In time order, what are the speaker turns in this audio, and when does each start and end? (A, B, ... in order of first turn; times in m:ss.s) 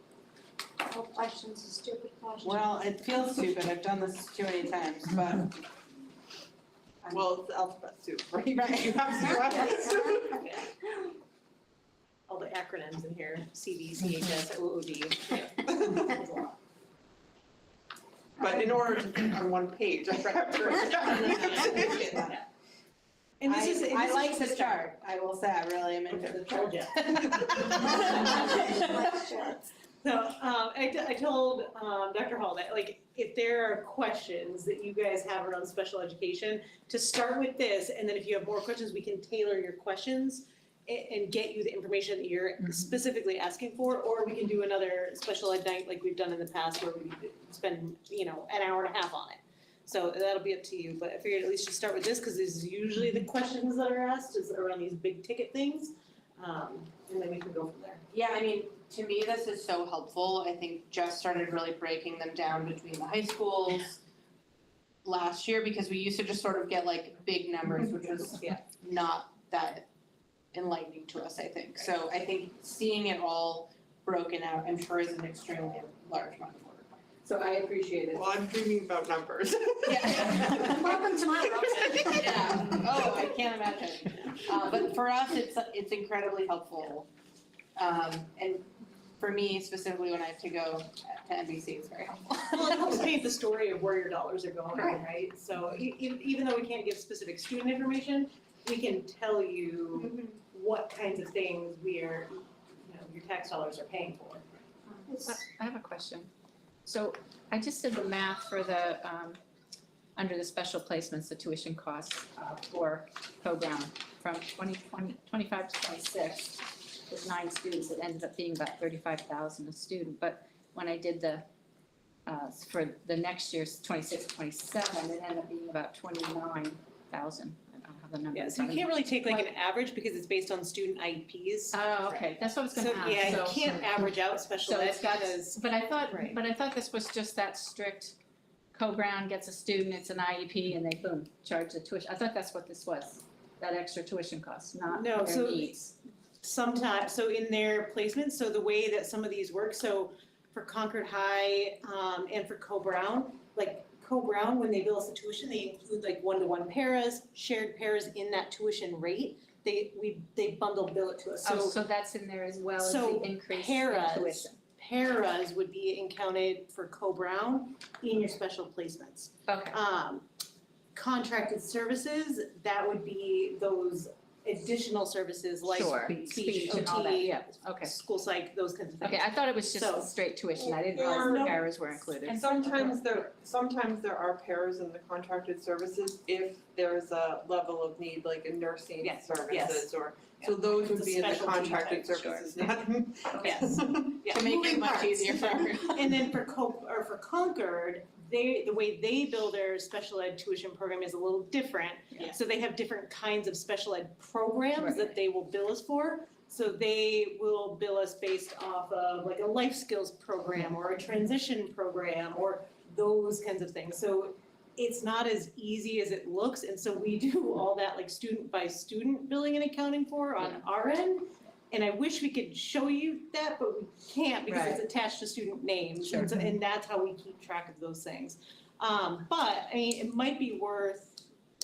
0:00.8-0:02.7 A
0:02.4-0:05.6 B
0:07.0-0:07.3 B
0:07.1-0:10.4 C
0:08.6-0:09.5 B
0:12.3-0:16.5 D
0:18.4-0:22.3 C
0:21.0-0:22.2 B
0:23.4-0:24.9 D
0:23.5-0:29.3 B
0:26.1-0:27.4 D
0:28.2-0:29.6 A
0:30.0-0:58.0 D
0:58.1-1:04.0 B
1:05.0-1:09.9 B
1:08.0-1:08.6 D
1:10.5-1:18.2 B
1:18.1-1:20.8 C
1:19.8-1:21.2 B
1:20.7-1:22.5 A
1:21.8-1:23.1 C
1:22.0-1:27.1 B
1:27.8-1:28.7 B
1:29.2-1:32.9 B
1:32.5-1:44.4 D
1:44.9-1:46.3 E
1:46.8-1:49.4 E
1:50.2-2:01.4 E
2:02.2-2:09.5 E
2:08.3-2:16.4 D
2:11.7-2:14.0 E
2:14.6-2:18.2 E
2:18.7-2:25.8 E
2:24.9-2:41.8 D
2:41.4-2:44.6 E
2:42.8-2:50.3 D
2:49.5-2:49.8 E
2:50.9-3:00.2 D
2:55.6-2:57.9 E
2:59.0-3:03.1 E
3:00.7-3:01.5 C
3:00.9-3:01.6 D
3:02.2-3:15.3 C
3:09.0-3:51.2 D
3:14.3-3:16.3 B
3:24.8-3:25.1 E
3:44.5-3:44.8 E
3:46.1-3:46.5 E